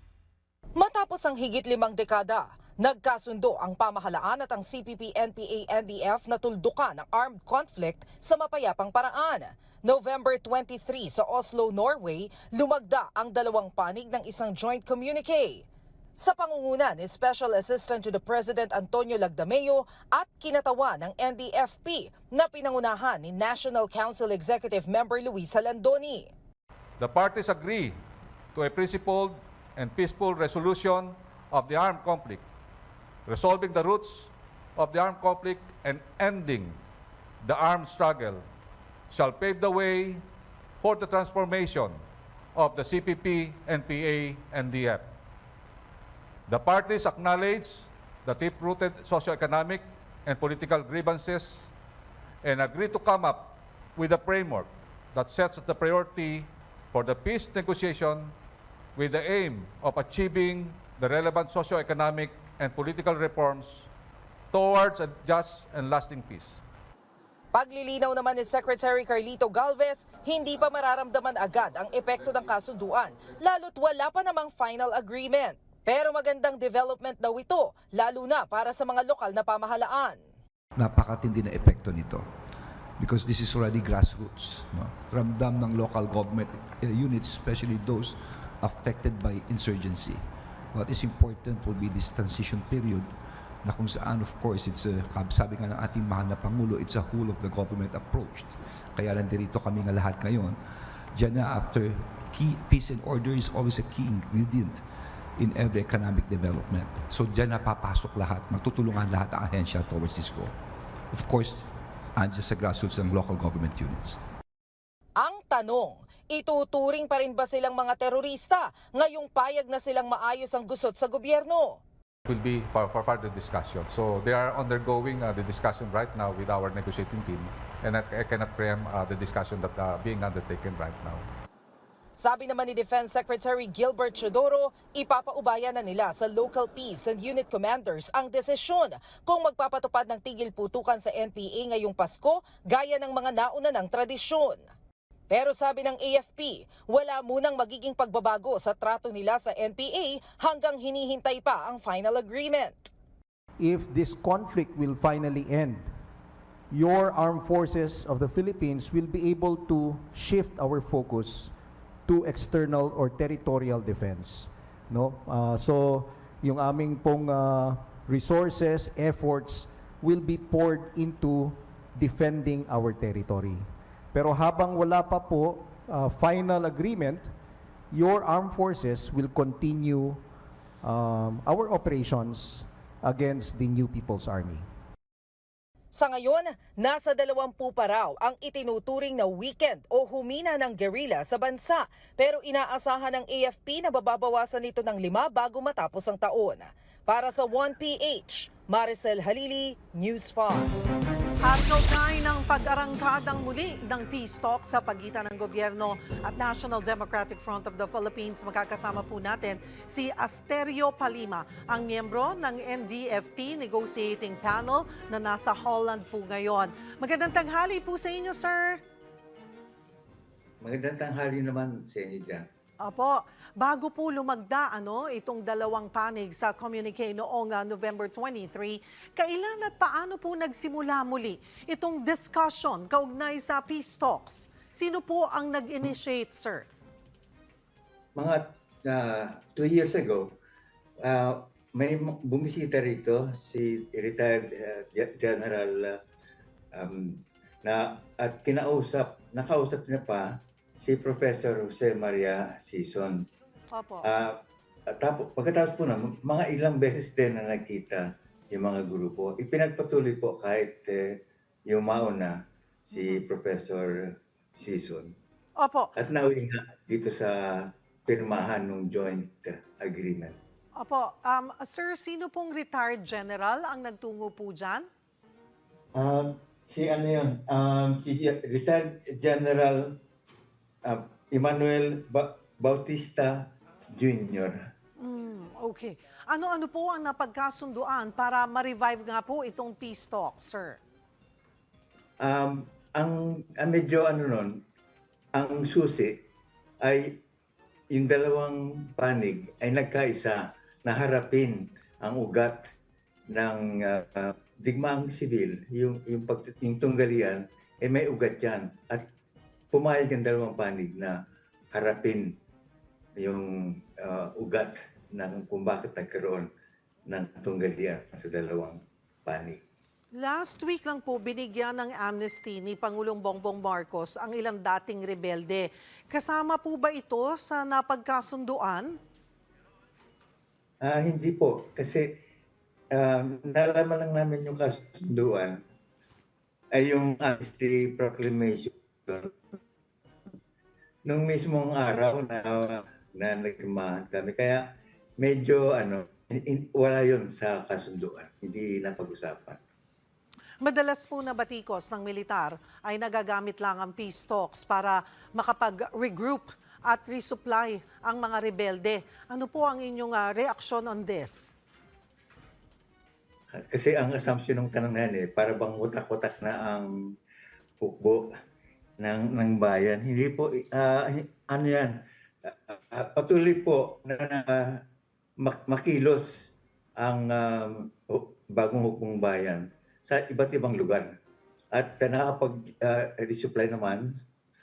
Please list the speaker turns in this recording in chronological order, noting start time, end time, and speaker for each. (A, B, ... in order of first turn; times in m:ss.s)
0:00.8-0:15.6 A
0:16.2-0:26.3 A
0:27.0-0:28.0 B
0:28.5-0:32.4 B
0:33.3-0:36.8 B
0:37.4-0:38.4 B
0:39.1-0:40.2 B
0:40.8-0:42.0 B
0:42.6-0:45.1 B
0:46.5-0:51.7 B
0:52.4-0:58.4 B
0:59.0-1:03.9 B
1:04.5-1:06.6 B
1:07.5-1:20.2 A
1:20.8-1:22.2 C
1:23.0-1:40.6 C
1:41.1-1:44.8 C
1:45.4-1:50.5 C
1:51.1-1:54.2 C
1:55.2-2:01.8 A
2:02.3-2:11.3 B
2:12.2-2:24.6 A
2:25.3-2:32.9 A
2:33.7-2:35.8 D
2:36.7-2:41.5 D
2:42.1-2:57.2 D
2:57.9-3:00.2 D
3:00.8-3:04.7 D
3:05.9-3:20.7 A
3:21.4-3:38.8 E
3:40.6-3:42.5 F
3:42.8-3:56.7 E
3:58.2-4:00.3 F
4:01.0-4:06.0 F
4:06.7-4:13.2 F
4:13.7-4:14.1 E
4:14.0-4:14.4 F
4:14.9-4:21.0 F
4:21.7-4:22.4 F
4:22.9-4:23.9 F
4:22.9-4:23.2 E
4:24.6-4:25.1 F
4:25.6-4:26.0 E
4:26.0-4:30.4 F
4:30.8-4:34.9 E
4:36.0-4:40.0 F
4:40.8-4:44.6 F
4:45.0-4:50.8 E
4:52.2-4:54.6 F
4:55.3-4:56.3 F
4:56.8-4:57.2 F
4:57.9-5:02.7 F
5:03.3-5:09.1 F
5:09.7-5:11.2 F
5:11.7-5:12.4 F
5:13.2-5:16.5 F
5:17.1-5:19.6 F
5:20.1-5:29.0 E
5:30.8-5:32.2 F
5:32.9-5:35.6 F
5:36.7-5:39.3 F
5:41.0-5:44.7 F
5:45.2-5:49.6 F
5:50.6-6:01.6 E
6:03.7-6:06.9 F
6:07.8-6:08.3 F
6:09.0-6:14.8 F
6:15.4-6:21.1 F
6:21.7-6:24.1 F